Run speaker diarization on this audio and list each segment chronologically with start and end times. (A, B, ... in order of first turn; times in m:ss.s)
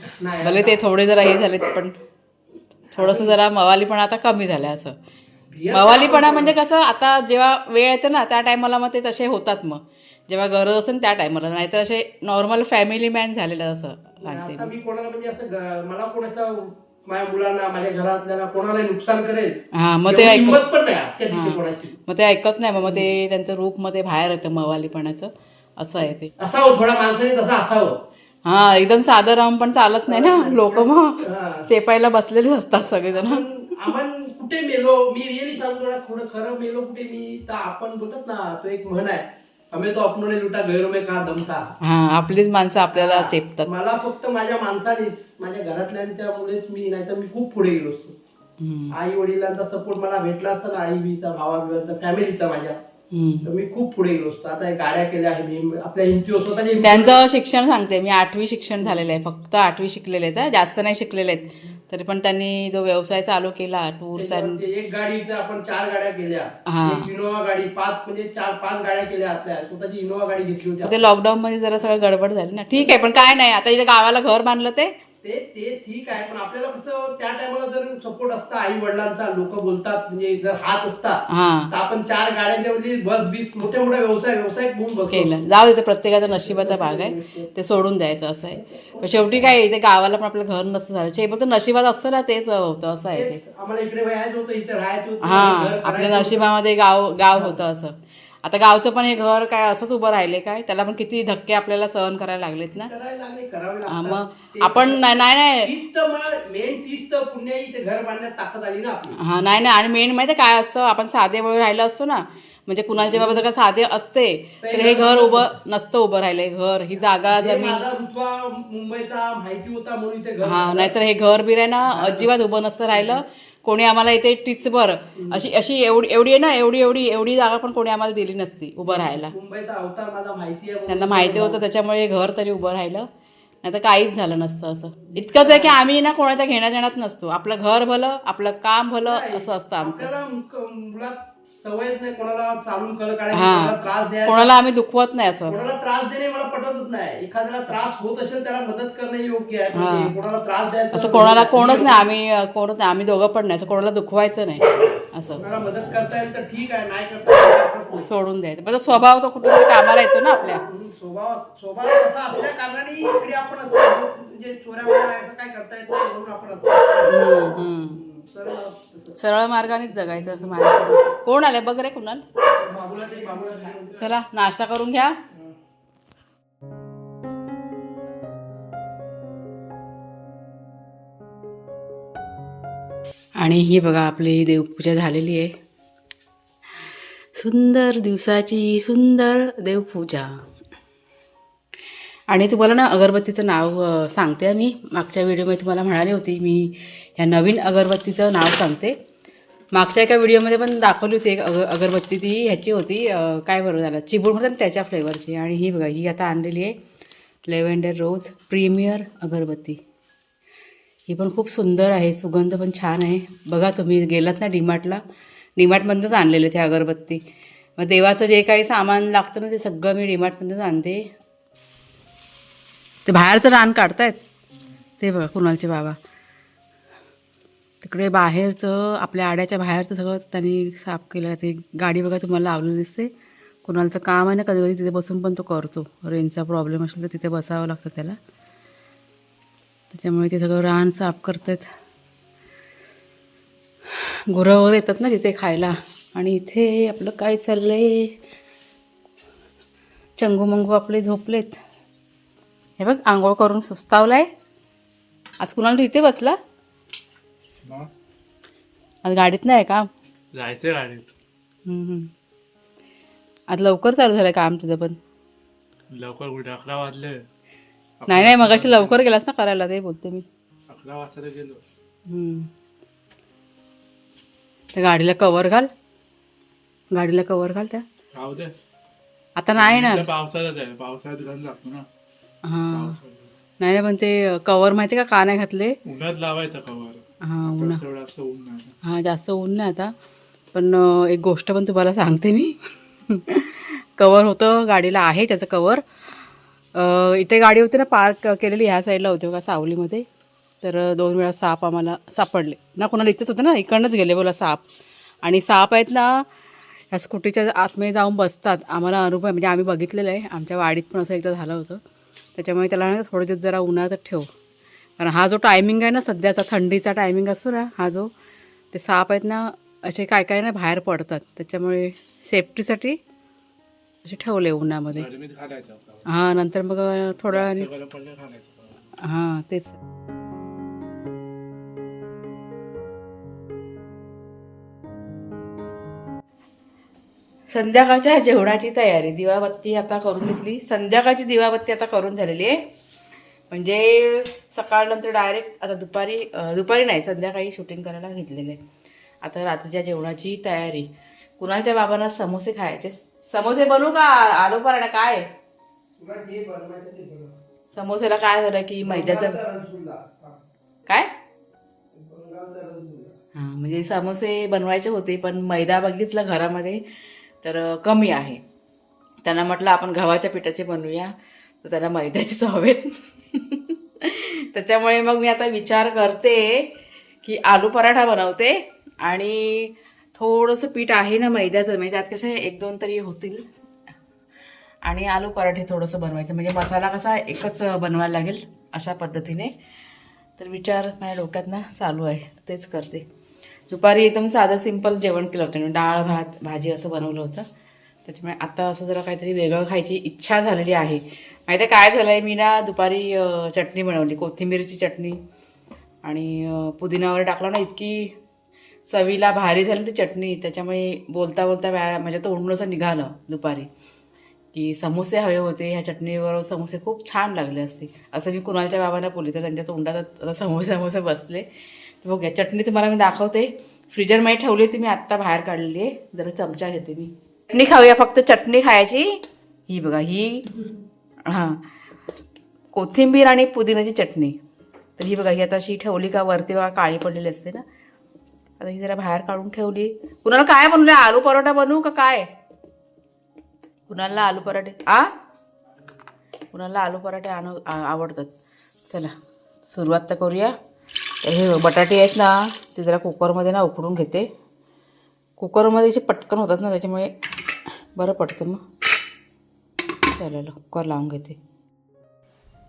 0:00.2-0:00.8 A
0:00.4-0:02.0 B
0:02.9-0:03.4 A
0:02.9-0:05.0 B
0:05.5-0:06.5 A
0:05.7-0:14.7 B
0:14.2-0:22.0 A
0:19.7-0:20.6 B
0:21.3-0:26.3 B
0:22.8-0:23.1 A
0:26.4-0:28.0 A
0:28.4-0:33.4 B
0:30.1-0:31.7 A
0:33.1-0:41.7 A
0:41.8-0:43.7 B
0:42.9-0:48.1 A
0:48.6-0:48.9 B
0:48.9-0:52.8 A
0:53.1-0:53.5 B
0:53.4-0:57.2 A
0:56.8-1:04.6 B
1:04.2-1:11.1 A
1:06.6-1:07.1 B
1:10.8-1:14.9 B
1:12.7-1:13.3 A
1:15.2-1:25.4 A
1:21.3-1:21.7 B
1:25.1-1:33.4 B
1:26.2-1:27.5 A
1:28.7-1:29.5 A
1:33.1-1:36.5 A
1:35.2-1:42.9 B
1:42.8-1:45.0 A
1:43.9-1:45.7 B
1:45.6-1:49.2 A
1:49.2-1:57.8 B
1:53.0-1:53.4 A
1:54.6-1:55.5 A
1:57.3-2:00.9 A
2:00.4-2:09.3 B
2:01.9-2:02.3 A
2:05.2-2:05.5 A
2:08.8-2:11.6 A
2:10.9-2:13.1 B
2:13.6-2:20.1 B
2:15.1-2:15.8 A
2:19.0-2:24.5 A
2:23.3-2:25.6 B
2:25.5-2:32.1 A
2:29.7-2:30.2 B
2:30.9-2:35.4 B
2:35.4-2:38.1 A
2:38.0-2:40.6 B
2:40.5-2:49.1 A
2:47.0-2:48.0 B
2:49.2-2:52.2 B
2:50.0-2:50.9 A
2:52.6-2:54.1 A
2:53.9-2:55.2 B
3:03.4-3:05.5 B
3:07.3-3:10.4 B
3:12.3-3:19.0 B
3:19.7-3:26.7 B
3:27.5-3:29.8 B
3:31.1-3:35.0 B
3:35.6-3:37.2 B
3:37.8-3:41.1 B
3:43.0-3:44.2 B
3:45.0-3:46.0 B
3:47.8-3:53.1 B
3:53.6-3:58.2 B
3:59.9-4:01.7 B
4:04.3-4:08.1 B
4:10.2-4:11.6 B
4:12.8-4:14.3 B
4:15.4-4:16.4 B
4:17.6-4:17.9 C
4:19.0-4:19.9 B
4:20.3-4:21.1 C
4:21.6-4:22.1 B
4:23.5-4:25.0 B
4:25.9-4:27.2 C
4:28.0-4:29.0 C
4:28.1-4:30.2 B
4:30.7-4:31.6 C
4:32.1-4:32.5 B
4:34.7-4:35.7 B
4:36.9-4:37.8 B
4:38.1-4:38.5 C
4:39.4-4:40.1 B
4:39.6-4:41.8 C
4:42.4-4:43.0 B
4:42.7-4:43.3 C
4:43.6-4:45.8 B
4:45.8-4:48.7 C
4:47.2-4:47.8 B
4:48.8-4:49.9 B
4:50.5-4:52.6 B
4:53.1-4:55.8 B
4:56.7-5:00.0 B
5:00.6-5:04.6 B
5:05.2-5:06.2 B
5:06.9-5:11.8 B
5:12.4-5:14.3 B
5:15.0-5:18.1 B
5:18.7-5:23.0 B
5:24.0-5:25.1 B
5:24.9-5:26.0 C
5:26.0-5:27.7 B
5:27.3-5:28.9 C
5:29.0-5:29.8 B
5:37.5-5:42.6 B
5:43.5-5:48.6 B
5:49.2-5:55.3 B
5:56.0-5:57.3 A
5:57.7-5:59.4 B
5:58.8-6:00.4 A
6:01.9-6:03.1 A
6:03.3-6:06.8 B
6:07.4-6:08.4 B
6:09.2-6:23.4 B
6:24.8-6:29.5 B
6:30.4-6:33.0 B
6:33.7-6:37.4 B
6:38.0-6:45.2 B
6:46.0-6:48.2 B
6:48.9-6:53.7 B
6:54.5-7:01.5 B
7:02.0-7:10.5 B
7:11.2-7:11.6 B
7:12.7-7:14.4 B
7:15.0-7:17.6 B
7:18.6-7:22.3 B
7:23.9-7:25.1 B
7:26.5-7:28.3 B
7:28.9-7:29.1 B
7:29.6-7:30.6 B
7:31.2-7:34.3 B
7:35.4-7:37.1 B
7:37.9-7:38.6 B
7:40.0-7:41.4 B